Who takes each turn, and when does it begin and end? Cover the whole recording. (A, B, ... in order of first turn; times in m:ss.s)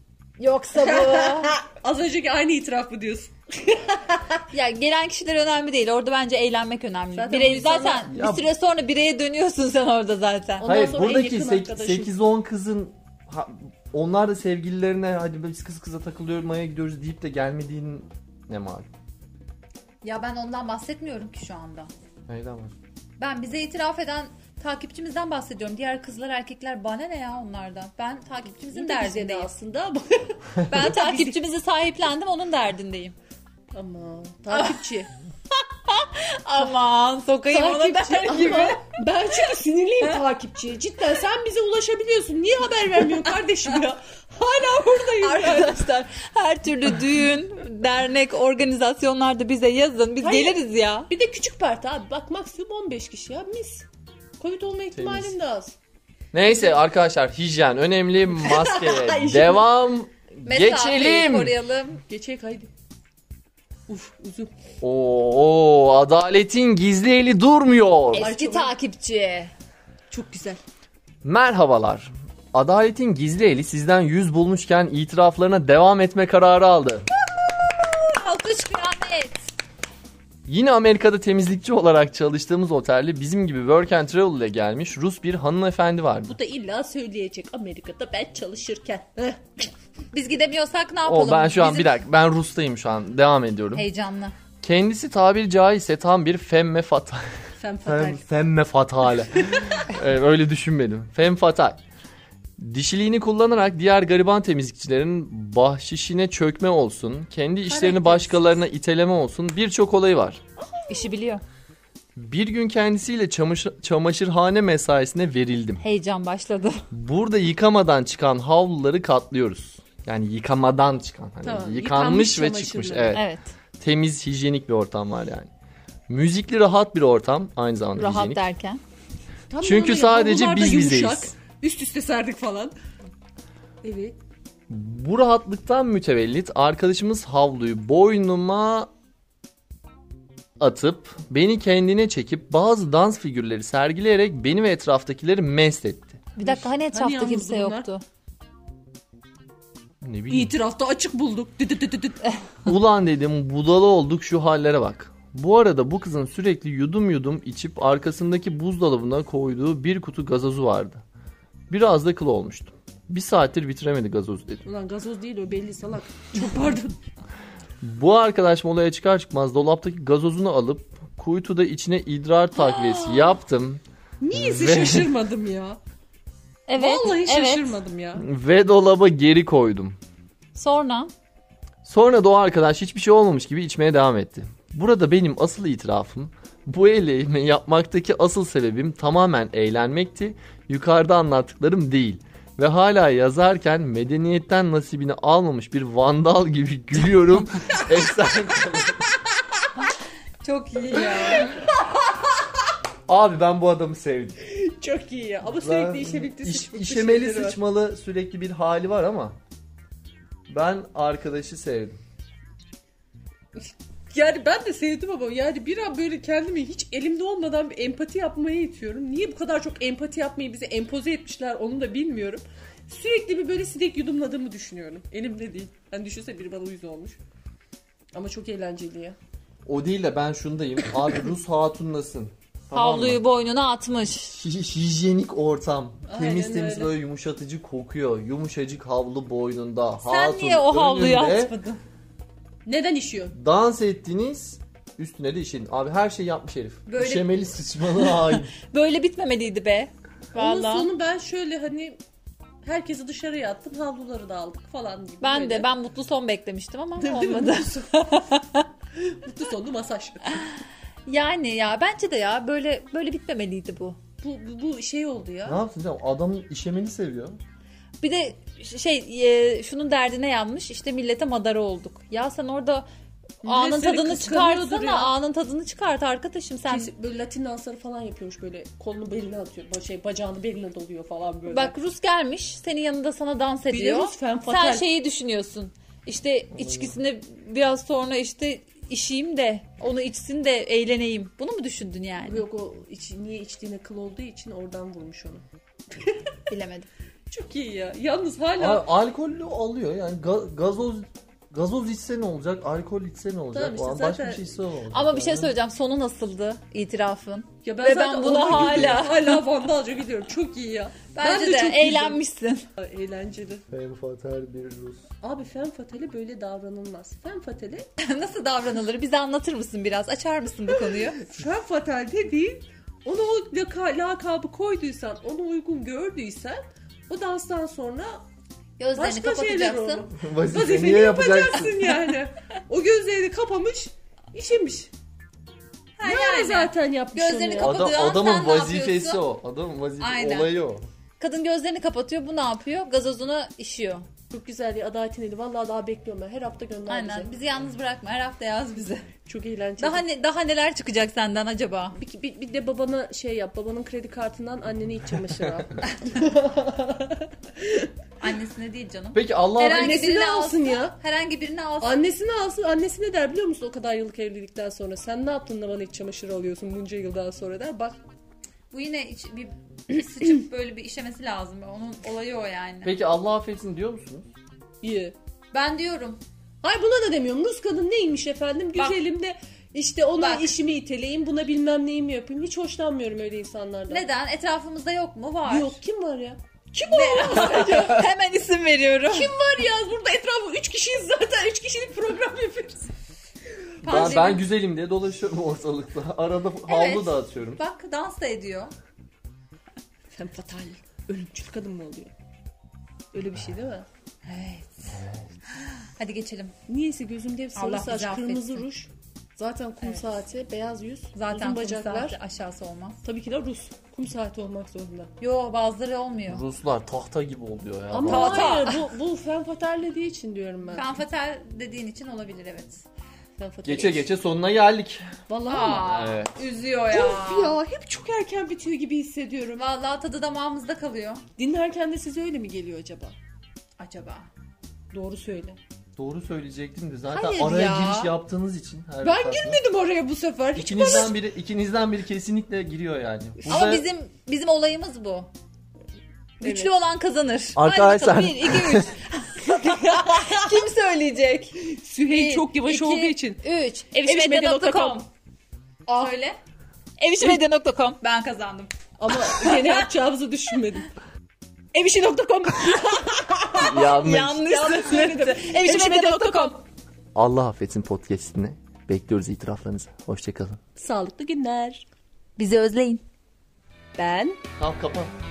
0:00.4-0:01.6 A
0:00.7-0:04.4 B
0:04.5-0:10.7 A
0:07.1-0:08.1 B
0:08.1-0:08.5 C
0:10.6-0:12.1 B
0:10.6-0:18.9 C
0:20.0-0:21.9 A
0:22.3-0:22.7 C
0:23.2-0:29.5 A
0:28.6-0:31.4 B
0:30.7-0:33.2 A
0:33.7-0:35.1 B
0:35.5-0:38.8 A
0:37.5-0:45.9 B
0:45.2-0:51.1 A
0:50.2-0:53.9 B
0:54.4-0:55.7 B
0:54.9-0:55.3 C
0:56.3-1:01.5 C
0:56.4-0:56.8 B
0:58.4-0:59.6 B
1:00.4-1:02.0 A
1:02.1-1:02.7 B
1:03.9-1:04.5 B
1:04.8-1:08.3 C
1:08.1-1:09.5 A
1:08.1-1:08.7 B
1:10.1-1:10.6 B
1:11.2-1:17.1 C
1:17.6-1:19.5 A
1:20.4-1:26.4 C
1:26.3-1:29.7 B
1:30.1-1:32.0 A
1:31.0-1:33.9 C
1:33.7-1:34.4 A
1:34.6-1:37.3 C
1:37.6-1:38.2 B
1:37.8-1:41.8 C
1:42.6-1:50.4 C
1:47.6-1:48.4 B
1:50.8-1:51.1 B
1:50.9-1:51.4 A
1:52.2-1:55.8 C
1:55.8-1:56.9 A
1:56.9-2:03.2 C
2:01.4-2:03.2 B
2:03.1-2:03.5 A
2:03.8-2:05.5 C
2:06.1-2:08.4 C
2:08.0-2:08.8 A
2:09.5-2:12.7 B
2:09.6-2:11.3 C
2:13.8-2:14.2 B
2:14.7-2:18.9 C
2:20.6-2:26.2 C
2:26.4-2:28.0 A
2:26.4-2:27.9 B
2:30.0-2:30.5 C
2:30.3-2:32.2 B
2:32.6-2:41.0 C
2:41.7-2:44.6 C
2:44.6-2:47.0 B
2:47.8-2:53.8 C
2:52.9-2:53.2 A
2:54.2-2:55.8 B
2:54.3-2:55.1 C
2:56.7-2:57.8 A
2:56.8-2:58.2 B
2:58.2-3:00.0 C
3:00.5-3:01.1 A
3:01.8-3:19.0 C
3:20.4-3:21.6 A
3:23.1-3:24.4 C
3:24.4-3:27.6 B
3:25.6-3:29.4 C
3:30.5-3:32.0 C
3:33.6-3:47.2 B
3:48.1-3:49.2 B
3:49.6-3:53.2 C
3:52.7-3:54.4 A
3:54.3-4:01.5 C
3:56.1-3:56.9 B
4:00.0-4:01.8 A
4:02.6-4:03.3 B
4:03.3-4:08.5 C
4:06.9-4:07.3 A
4:08.0-4:10.9 A
4:10.3-4:12.0 B
4:12.6-4:15.7 B
4:15.2-4:18.7 A
4:17.0-4:17.9 B
4:19.1-4:20.5 B
4:21.0-4:24.0 A
4:24.2-4:25.6 B
4:25.4-4:27.4 C
4:28.0-4:32.9 A
4:33.4-4:35.1 B
4:33.4-4:36.9 A
4:36.7-4:41.8 B
4:41.5-4:52.4 A
4:43.7-4:44.8 B
4:46.6-4:46.9 C
4:52.2-4:56.3 B
4:56.5-4:56.9 A
4:57.3-4:58.8 B
4:58.6-5:05.5 C
5:03.5-5:04.4 B
5:04.9-5:09.4 A
5:07.6-5:12.2 B
5:08.4-5:09.0 C
5:11.1-5:12.6 A
5:12.8-5:13.6 B
5:13.7-5:15.1 C
5:15.2-5:17.9 B
5:18.0-5:21.2 A
5:21.2-5:28.2 B
5:28.8-5:30.1 A
5:29.0-5:34.9 B
5:30.1-5:31.9 C
5:36.0-5:39.2 A
5:36.0-5:37.8 B
5:37.6-5:40.9 C
5:40.0-5:40.5 A
5:41.2-5:44.1 A
5:44.3-5:47.3 B
5:46.9-5:49.1 A
5:49.2-5:50.0 B
5:49.8-5:52.0 A
5:52.0-5:57.9 B
5:58.2-6:02.0 A
5:59.1-5:59.9 C
5:59.6-6:01.0 B
6:01.8-6:08.0 B
6:08.7-6:12.9 A
6:12.8-6:14.2 C
6:14.8-6:15.1 B
6:15.5-6:16.2 A
6:16.6-6:24.0 B
6:20.2-6:20.5 A
6:23.9-6:25.8 A
6:25.4-6:28.1 B
6:26.9-6:29.3 A
6:29.1-6:32.9 B
6:33.8-6:34.4 A
6:33.8-6:37.6 C
6:33.9-6:34.3 B
6:36.7-6:38.7 A
6:40.1-6:42.1 B
6:43.1-6:43.9 B
6:44.2-6:45.0 A
6:44.9-6:45.3 C
6:45.5-6:46.5 A
6:46.7-6:52.2 B
6:47.5-6:48.6 A
6:51.1-6:53.0 A
6:53.0-6:55.1 B
6:55.2-6:56.4 A
6:56.3-6:58.6 C
6:57.9-7:00.9 B
6:58.1-6:58.8 A
7:00.7-7:02.8 A
7:03.4-7:04.1 B
7:03.6-7:05.1 C
7:05.3-7:06.0 B
7:05.4-7:07.6 A
7:05.8-7:06.3 C
7:06.9-7:09.6 B
7:09.6-7:11.2 A
7:11.4-7:13.2 B
7:13.8-7:14.3 A
7:14.9-7:15.6 B
7:16.0-7:19.6 C
7:17.1-7:18.1 A
7:19.0-7:21.1 B
7:20.5-7:23.8 C
7:23.4-7:25.3 A
7:26.4-7:26.7 B
7:26.4-7:35.1 A
7:27.5-7:28.9 C
7:29.4-7:30.6 B
7:31.7-7:33.4 B
7:34.0-7:35.0 B
7:35.9-7:36.1 B
7:35.9-7:36.4 A
7:37.0-7:38.7 A
7:39.0-7:40.9 B
7:39.2-7:39.8 A
7:41.7-7:46.6 B
7:43.6-7:44.4 C
7:43.6-7:46.6 A
7:47.1-7:50.6 C
7:50.8-7:51.8 B
7:52.4-7:53.0 A
7:54.0-7:54.4 B
7:54.6-7:55.1 C